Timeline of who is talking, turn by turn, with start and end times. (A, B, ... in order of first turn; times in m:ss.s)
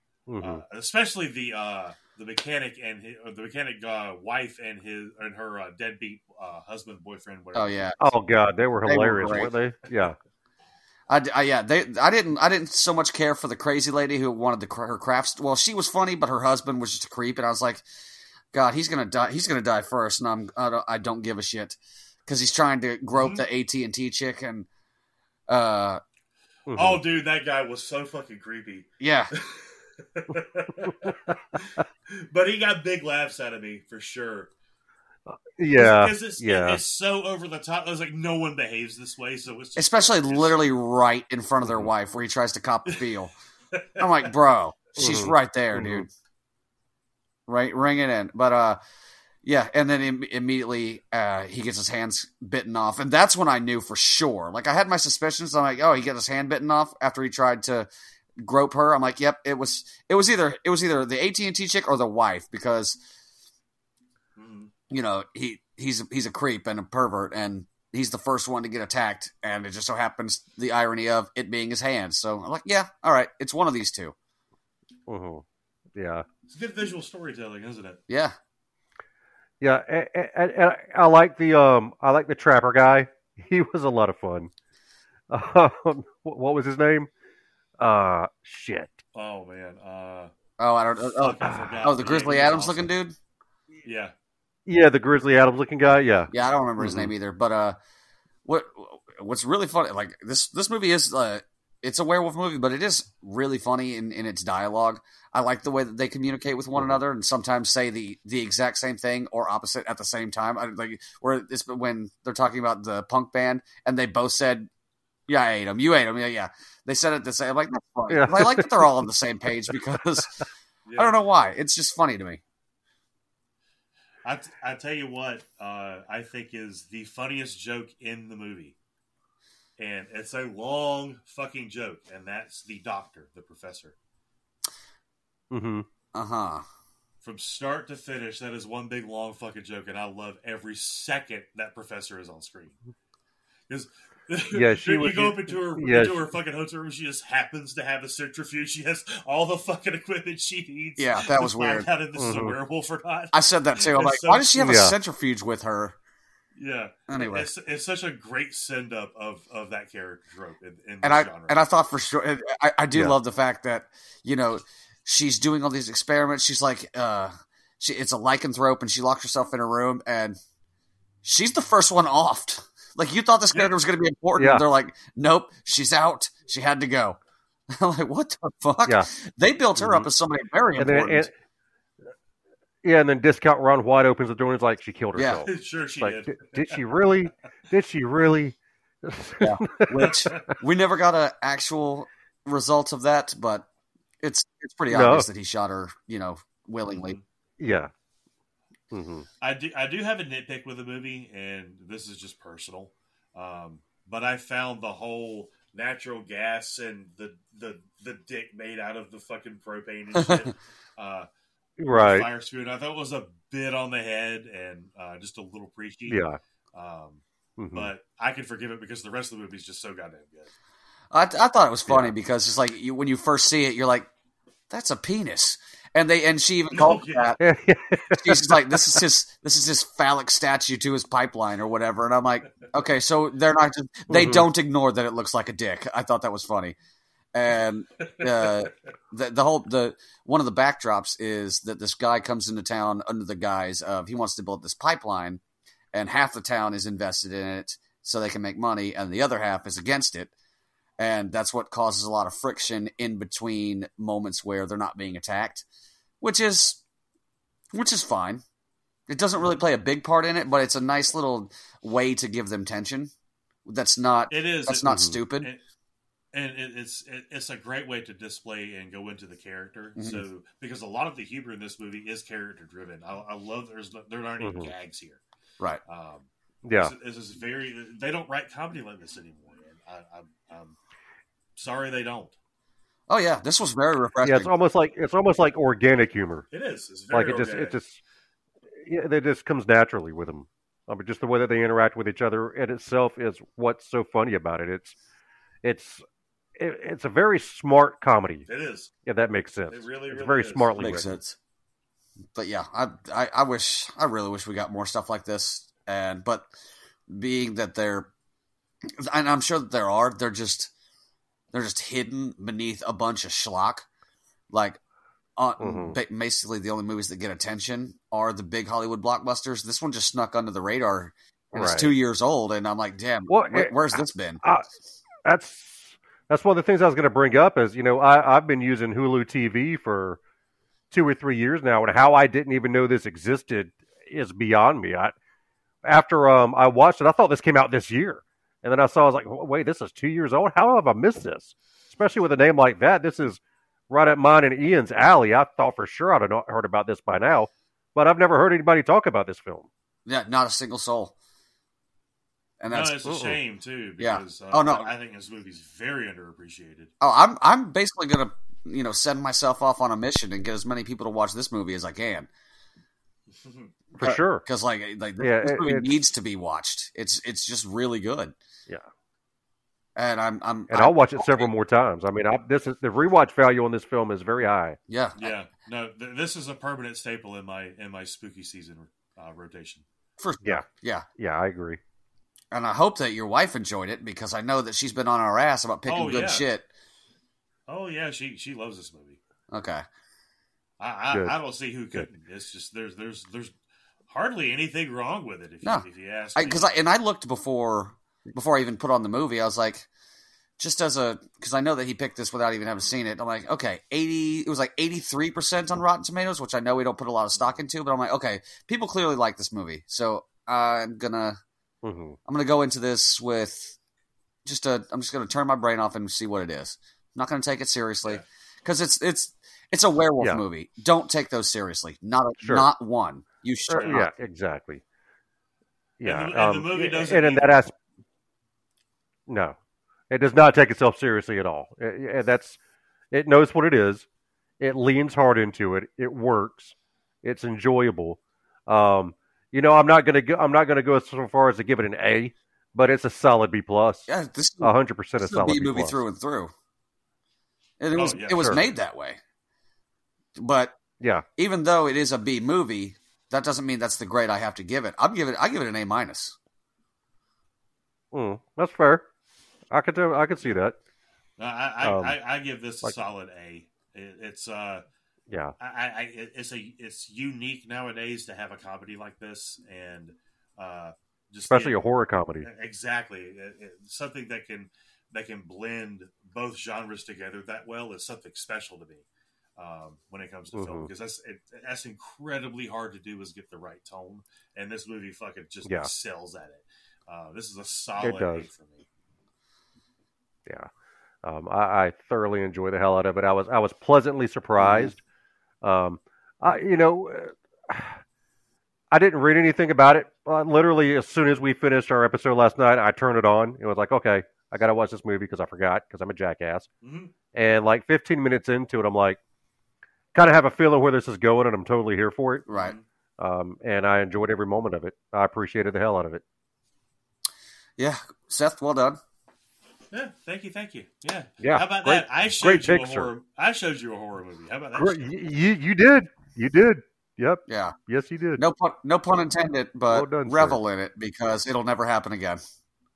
0:00.3-0:00.6 A
0:00.4-0:08.0 B
0:07.6-0:08.0 C
0:08.0-0:10.2 A
0:08.9-0:09.5 C
0:11.1-0:17.8 C
0:18.5-0:24.7 C
0:23.1-0:23.4 B
0:25.5-0:26.0 C
0:26.7-0:27.0 A
0:26.8-0:34.5 B
0:29.0-0:29.3 C
0:35.3-0:36.8 A
0:35.8-0:40.8 B
0:39.8-0:43.3 C
0:43.7-0:44.3 B
0:44.0-0:46.1 C
0:45.0-0:46.1 A
0:47.5-0:48.8 C
0:49.4-0:57.9 C
0:58.4-1:03.0 C
1:04.4-1:04.7 B
1:04.9-1:14.2 C
1:15.1-1:15.4 A
1:16.0-1:16.2 A
1:16.5-1:18.0 B
1:18.1-1:18.4 C
1:19.6-1:24.5 A
1:25.3-1:27.1 A
1:27.8-1:29.0 A
1:29.2-1:30.3 B
1:30.6-1:33.2 C
1:31.2-1:32.9 B
1:31.4-1:31.8 A
1:33.8-1:34.1 B
1:34.7-1:37.1 A
1:36.3-1:37.8 C
1:38.4-1:54.7 C
1:55.3-2:00.4 C
1:58.1-1:58.9 A
2:00.9-2:01.2 B
2:01.0-2:02.4 C
2:04.2-2:08.8 B
2:09.8-2:14.0 B
2:15.5-2:15.8 A
2:16.1-2:16.6 C
2:17.2-2:22.8 B
2:23.7-2:34.8 B
2:24.5-2:26.2 A
2:31.0-2:31.9 C
2:32.2-2:32.6 A
2:33.3-2:36.0 C
2:34.6-2:35.0 A
2:36.5-2:41.6 B
2:37.1-2:37.5 C
2:41.0-2:50.4 C
2:51.2-2:57.2 C
2:54.4-2:54.6 A
2:57.7-3:01.3 C
2:59.8-3:00.1 A
3:00.8-3:01.3 A
3:02.8-3:10.5 A
3:05.2-3:05.4 C
3:05.4-3:06.8 B
3:09.4-3:13.7 C
3:10.0-3:10.5 B
3:14.2-3:17.2 C
3:14.9-3:15.3 A
3:16.9-3:17.2 B
3:17.6-3:17.9 A
3:18.9-3:19.3 A
3:19.4-3:31.3 B
3:30.2-3:30.5 C
3:31.8-3:32.3 A
3:31.9-3:36.2 B
3:36.1-3:36.4 A
3:36.7-3:37.2 B
3:37.6-3:37.9 A
3:37.7-3:40.5 B
3:41.1-3:44.1 C
3:41.9-3:42.1 A
3:44.7-3:47.4 C
3:46.7-3:47.4 B
3:47.4-3:49.0 A
3:48.1-3:56.8 C
3:54.1-3:54.5 A
3:57.3-4:05.4 C
3:58.0-3:58.6 B
4:05.9-4:10.3 C
4:11.0-4:15.6 C
4:16.2-4:16.8 C
4:17.7-4:18.4 C
4:19.1-4:23.1 C
4:23.7-4:25.5 C
4:24.3-4:25.6 B
4:24.9-4:25.2 A
4:26.3-4:35.2 B
4:30.0-4:30.2 C
4:34.4-4:34.7 A
4:35.9-4:40.8 B
4:36.6-4:36.9 A
4:41.6-4:42.4 B
4:43.1-4:44.5 C
4:44.2-4:46.5 A
4:46.5-4:47.8 B
4:47.1-4:48.0 A
4:48.8-4:55.0 A
4:55.6-4:56.0 A
4:56.6-4:58.5 A
4:58.5-4:58.9 B
4:59.1-5:01.1 A
4:59.7-5:00.9 B
5:00.8-5:01.4 C
5:02.3-5:06.5 C
5:07.1-5:08.1 C
5:09.0-5:10.7 C
5:11.5-5:13.9 C
5:14.5-5:14.8 C
5:15.4-5:24.4 C
5:15.6-5:16.0 A
5:21.5-5:21.9 A
5:23.3-5:24.7 A
5:25.2-5:30.2 A
5:30.9-5:35.1 A
5:35.8-5:49.7 A
5:50.1-5:51.1 C
5:52.6-5:53.0 C
5:52.7-5:56.9 B
5:53.1-5:53.4 A
5:54.0-5:54.9 C
5:57.0-6:02.3 C
6:03.3-6:03.7 B
6:04.0-6:04.4 A
6:04.0-6:08.4 C
6:05.2-6:05.9 A
6:10.0-6:11.5 C
6:10.7-6:14.8 A
6:14.9-6:15.3 C
6:15.2-6:19.8 B
6:20.2-6:21.1 C
6:21.2-6:21.8 A
6:22.5-6:26.7 C
6:25.9-6:26.5 B
6:27.7-6:29.2 B
6:29.5-6:29.8 C
6:30.8-6:33.5 B
6:34.1-6:36.8 B
6:35.6-6:39.9 C
6:40.6-6:51.4 C
6:51.8-6:52.2 A
6:52.3-6:53.8 C
6:54.4-7:04.1 C
7:02.4-7:02.7 A
7:03.7-7:04.8 A
7:03.8-7:04.0 B
7:06.0-7:07.7 A
7:06.0-7:07.6 B
7:09.3-7:09.6 A
7:10.1-7:12.6 A
7:13.1-7:14.1 A
7:14.6-7:24.1 A
7:24.1-7:26.5 C
7:24.6-7:26.0 A
7:27.8-7:29.2 C
7:28.0-7:28.7 B
7:30.4-7:30.8 C
7:31.0-7:31.2 A
7:31.4-7:36.4 C
7:38.1-7:39.0 A
7:39.7-7:40.8 A
7:41.4-7:44.8 B
7:41.8-7:42.2 A
7:45.6-7:51.8 B
7:51.5-7:52.5 A
7:52.4-7:59.0 B
7:59.6-8:08.9 B
8:00.5-8:00.9 A
8:05.6-8:05.9 A
8:08.0-8:08.5 A
8:11.2-8:15.0 A
8:14.6-8:14.9 C
8:15.6-8:18.0 A
8:18.9-8:26.7 A
8:26.8-8:27.1 B
8:27.3-8:29.2 A
8:30.2-8:32.5 A
8:32.5-8:32.8 C
8:32.5-8:32.8 B
8:33.2-8:36.2 A
8:37.8-8:39.0 C
8:39.9-8:45.1 B
8:41.4-8:43.1 A
8:44.8-8:48.4 A
8:47.5-8:47.8 C
8:48.4-8:52.4 C
8:49.9-8:50.6 A